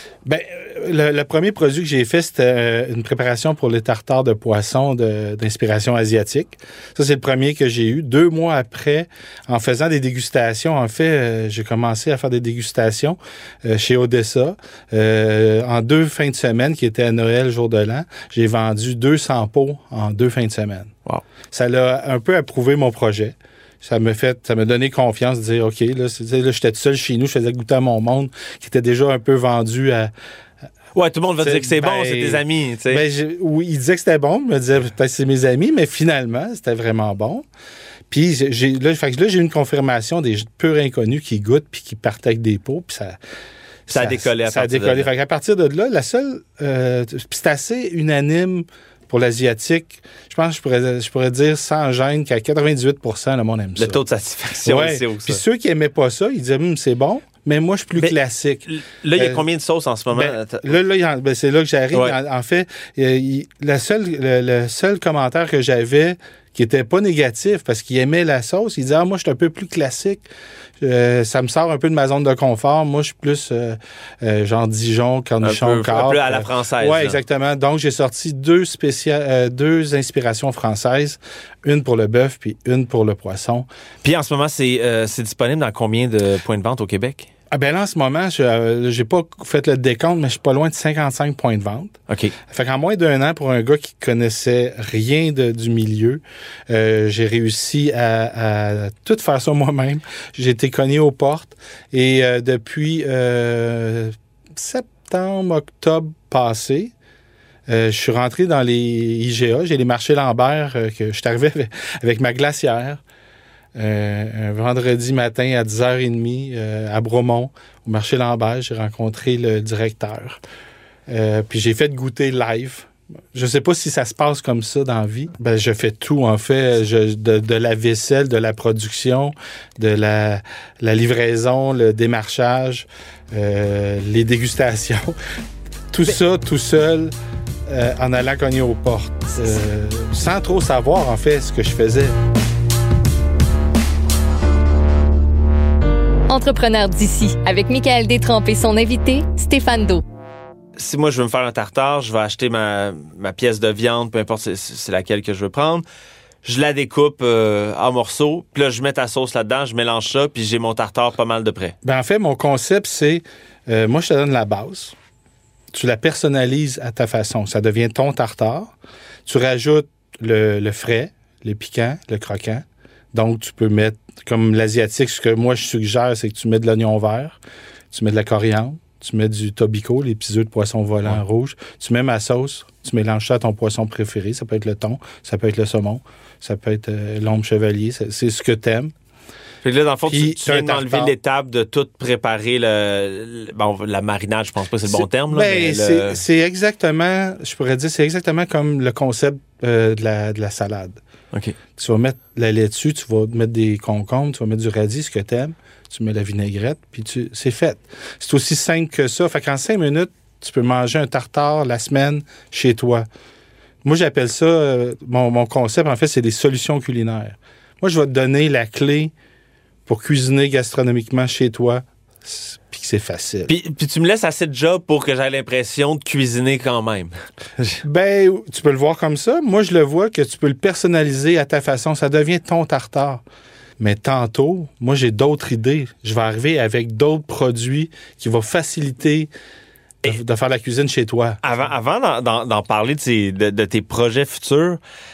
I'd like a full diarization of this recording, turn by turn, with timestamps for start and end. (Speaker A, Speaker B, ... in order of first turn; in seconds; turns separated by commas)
Speaker A: 0.2-20.9, Speaker A: 21.5-30.1, Speaker B: 30.9-33.0, Speaker A: 31.4-37.5, Speaker A: 38.1-43.2, Speaker A: 43.9-54.0, Speaker B: 43.9-45.1, Speaker B: 53.8-55.4, Speaker A: 54.6-59.5, Speaker B: 58.7-60.8, Speaker A: 60.1-70.2, Speaker A: 70.8-83.7, Speaker B: 75.4-77.2, Speaker B: 84.0-87.3, Speaker A: 87.5-106.9, Speaker B: 92.1-92.3, Speaker A: 107.7-113.0, Speaker A: 113.8-120.4, Speaker A: 121.1-135.2, Speaker A: 135.9-137.1, Speaker A: 137.7-142.2, Speaker C: 146.3-150.0, Speaker B: 150.8-155.8, Speaker B: 156.4-161.8, Speaker A: 161.8-165.0, Speaker A: 165.7-168.7, Speaker A: 169.3-177.4, Speaker A: 177.9-188.9, Speaker B: 189.6-196.2, Speaker A: 190.1-191.1, Speaker A: 194.9-201.0, Speaker A: 201.8-213.1, Speaker A: 213.8-219.1, Speaker A: 219.9-223.5, Speaker B: 223.5-227.8, Speaker A: 227.8-233.2, Speaker A: 233.8-239.3, Speaker A: 240.0-241.4, Speaker B: 241.4-244.8